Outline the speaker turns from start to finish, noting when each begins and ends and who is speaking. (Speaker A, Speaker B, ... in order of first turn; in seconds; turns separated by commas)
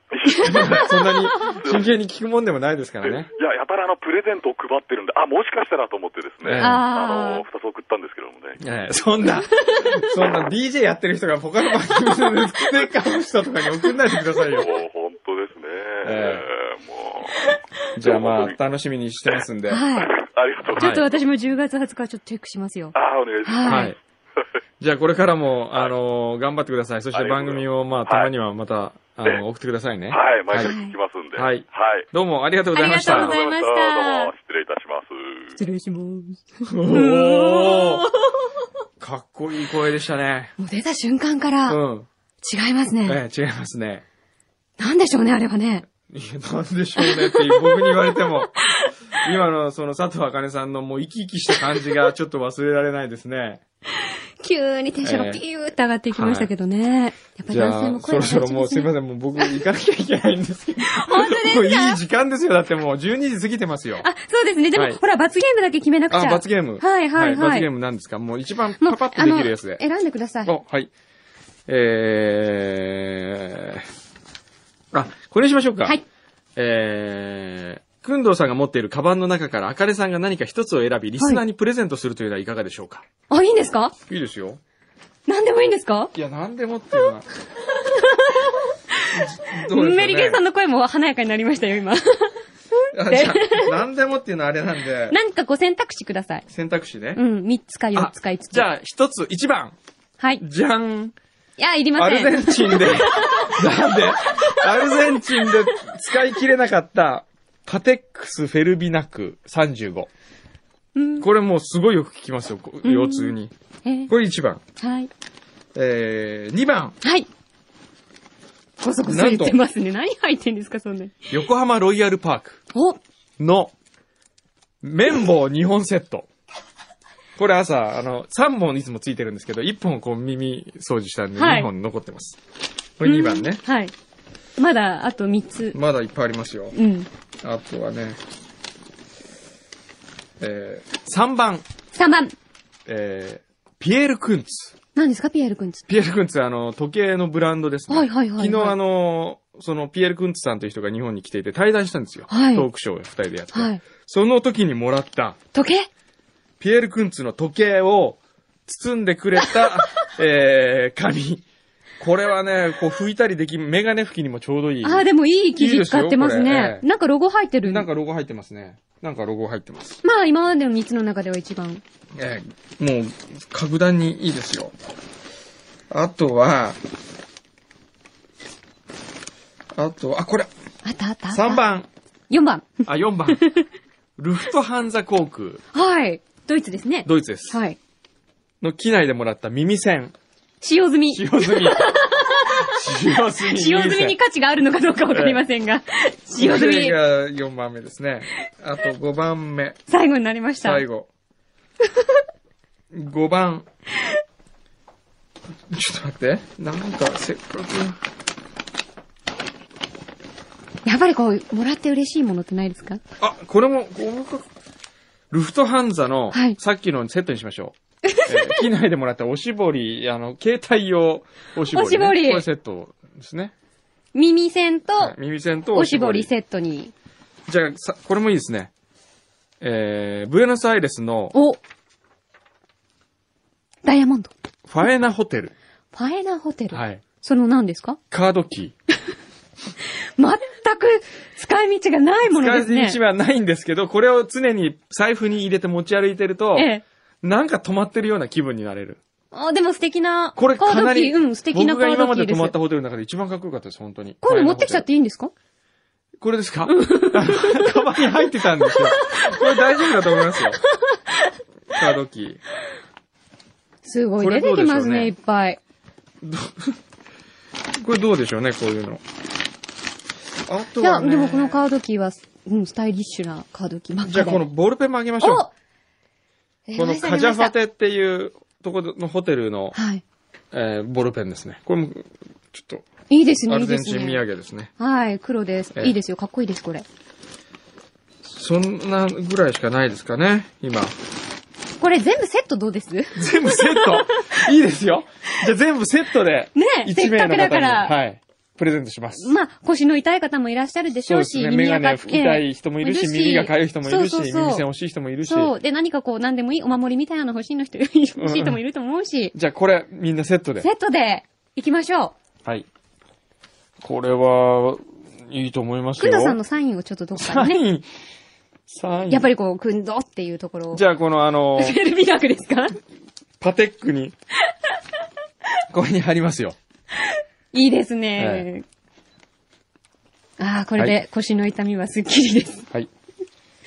Speaker A: 0.1-1.9, Speaker B: 0.3-3.3, Speaker C: 0.5-0.9, Speaker A: 3.0-8.6, Speaker B: 6.4-6.8, Speaker C: 6.6-7.4, Speaker B: 8.6-14.7, Speaker C: 9.5-9.9, Speaker A: 14.5-18.6, Speaker B: 16.0-16.4, Speaker B: 17.9-19.9, Speaker A: 19.3-21.0, Speaker C: 19.7-20.1, Speaker B: 20.7-21.1, Speaker C: 20.7-23.9, Speaker A: 22.9-24.0, Speaker B: 23.6-24.0, Speaker B: 24.8-30.7, Speaker A: 27.1-28.3, Speaker A: 30.1-32.1, Speaker C: 30.6-30.9, Speaker B: 31.3-33.4, Speaker C: 32.7-34.3, Speaker A: 32.9-35.6, Speaker C: 35.6-38.5, Speaker B: 36.6-38.1, Speaker B: 39.0-40.5, Speaker C: 40.6-41.8, Speaker B: 41.7-42.1, Speaker C: 42.4-43.2, Speaker B: 43.0-44.0, Speaker C: 44.8-45.9, Speaker B: 46.1-48.6, Speaker C: 47.0-48.3, Speaker B: 49.2-53.6, Speaker C: 54.0-59.6, Speaker B: 55.0-55.4, Speaker B: 56.1-56.5, Speaker B: 57.5-64.1, Speaker C: 60.9-62.0, Speaker C: 64.0-67.7, Speaker B: 64.7-65.0, Speaker B: 66.1-69.8, Speaker C: 68.8-70.5, Speaker B: 70.4-70.9, Speaker B: 71.7-73.8, Speaker B: 74.9-76.0, Speaker B: 76.5-83.0, Speaker C: 83.3-83.9, Speaker B: 84.1-84.6, Speaker C: 85.3-86.1, Speaker B: 86.1-87.3, Speaker C: 87.8-92.4, Speaker B: 89.1-90.4, Speaker B: 92.9-95.2, Speaker C: 93.0-93.7, Speaker C: 95.1-96.4, Speaker B: 96.5-97.2, Speaker C: 97.1-98.7, Speaker B: 97.9-99.8, Speaker B: 100.4-101.1, Speaker C: 101.6-105.5, Speaker B: 102.0-110.1, Speaker C: 111.0-111.3, Speaker B: 111.2-113.5, Speaker C: 112.8-114.1, Speaker B: 114.1-114.6, Speaker C: 114.8-115.1, Speaker B: 115.7-117.0, Speaker C: 117.0-117.3, Speaker C: 118.8-121.1, Speaker B: 119.1-119.6, Speaker B: 121.3-122.6, Speaker C: 122.7-123.0, Speaker B: 123.4-123.7, Speaker B: 124.8-126.3, Speaker B: 127.4-132.4, Speaker C: 131.3-131.7, Speaker B: 133.0-133.6, Speaker C: 133.0-133.9, Speaker C: 134.6-135.8, Speaker B: 135.7-136.7, Speaker C: 136.7-137.1, Speaker B: 137.4-138.2, Speaker B: 140.4-141.6, Speaker C: 141.9-142.3, Speaker B: 142.8-144.7, Speaker C: 144.9-145.8, Speaker B: 145.9-155.4, Speaker C: 147.9-148.8, Speaker C: 152.3-152.7, Speaker C: 153.5-153.8, Speaker C: 155.5-155.9, Speaker B: 156.6-161.4, Speaker B: 162.0-166.8, Speaker C: 164.8-167.9, Speaker B: 167.6-170.0, Speaker C: 170.0-171.8, Speaker B: 172.1-174.7, Speaker B: 175.9-176.8, Speaker B: 179.7-180.5, Speaker C: 180.8-181.7, Speaker B: 181.3-181.9, Speaker C: 182.3-182.8, Speaker B: 182.8-183.4, Speaker C: 183.3-183.7, Speaker B: 184.2-185.6, Speaker C: 185.7-187.8, Speaker B: 187.0-187.6, Speaker B: 188.6-190.1, Speaker C: 190.6-192.7, Speaker B: 191.1-191.9, Speaker B: 192.6-194.2, Speaker C: 193.4-197.0, Speaker B: 195.1-195.4, Speaker B: 196.3-199.8, Speaker C: 199.9-200.8, Speaker B: 200.6-201.1, Speaker B: 202.9-203.7, Speaker B: 205.7-208.0, Speaker C: 210.8-213.0, Speaker B: 213.2-214.4, Speaker B: 215.3-223.5, Speaker C: 216.3-216.6, Speaker C: 218.1-218.6, Speaker C: 221.7-222.5, Speaker C: 224.1-225.2, Speaker B: 224.9-226.3, Speaker C: 225.7-226.9, Speaker B: 227.5-228.7, Speaker B: 229.6-231.3, Speaker C: 231.3-231.6, Speaker C: 233.8-234.3, Speaker B: 234.7-235.5, Speaker C: 235.9-238.0, Speaker B: 236.7-237.0, Speaker B: 238.1-238.7, Speaker C: 240.2-243.0, Speaker B: 242.3-249.0, Speaker C: 246.5-246.8, Speaker C: 249.3-252.6, Speaker B: 250.3-254.9, Speaker C: 254.2-255.3, Speaker B: 256.2-260.6, Speaker C: 256.7-257.7, Speaker C: 259.0-259.5, Speaker B: 261.7-262.4, Speaker C: 263.8-265.6, Speaker B: 264.2-265.1, Speaker B: 266.2-266.8, Speaker B: 267.8-269.0, Speaker B: 270.5-271.6, Speaker C: 270.8-274.4, Speaker B: 274.0-275.4, Speaker C: 275.2-275.5, Speaker C: 276.7-277.5, Speaker B: 276.8-279.8, Speaker C: 279.7-280.0, Speaker B: 280.5-282.9, Speaker C: 283.1-284.2, Speaker B: 283.5-284.7, Speaker C: 284.8-286.8, Speaker B: 288.2-290.9, Speaker C: 291.8-294.4, Speaker B: 293.1-299.3, Speaker C: 296.6-297.9, Speaker C: 299.2-304.6, Speaker B: 301.1-305.5, Speaker C: 305.2-309.3, Speaker B: 308.2-308.6, Speaker B: 309.3-310.7, Speaker C: 310.6-312.1, Speaker B: 313.8-316.4, Speaker C: 316.0-317.6, Speaker B: 317.2-317.9, Speaker B: 318.7-319.3, Speaker C: 319.1-320.8, Speaker B: 320.7-321.8, Speaker C: 321.6-322.8, Speaker B: 323.4-324.1, Speaker B: 325.7-326.6, Speaker C: 327.0-328.6, Speaker B: 328.2-328.5, Speaker C: 330.4-332.7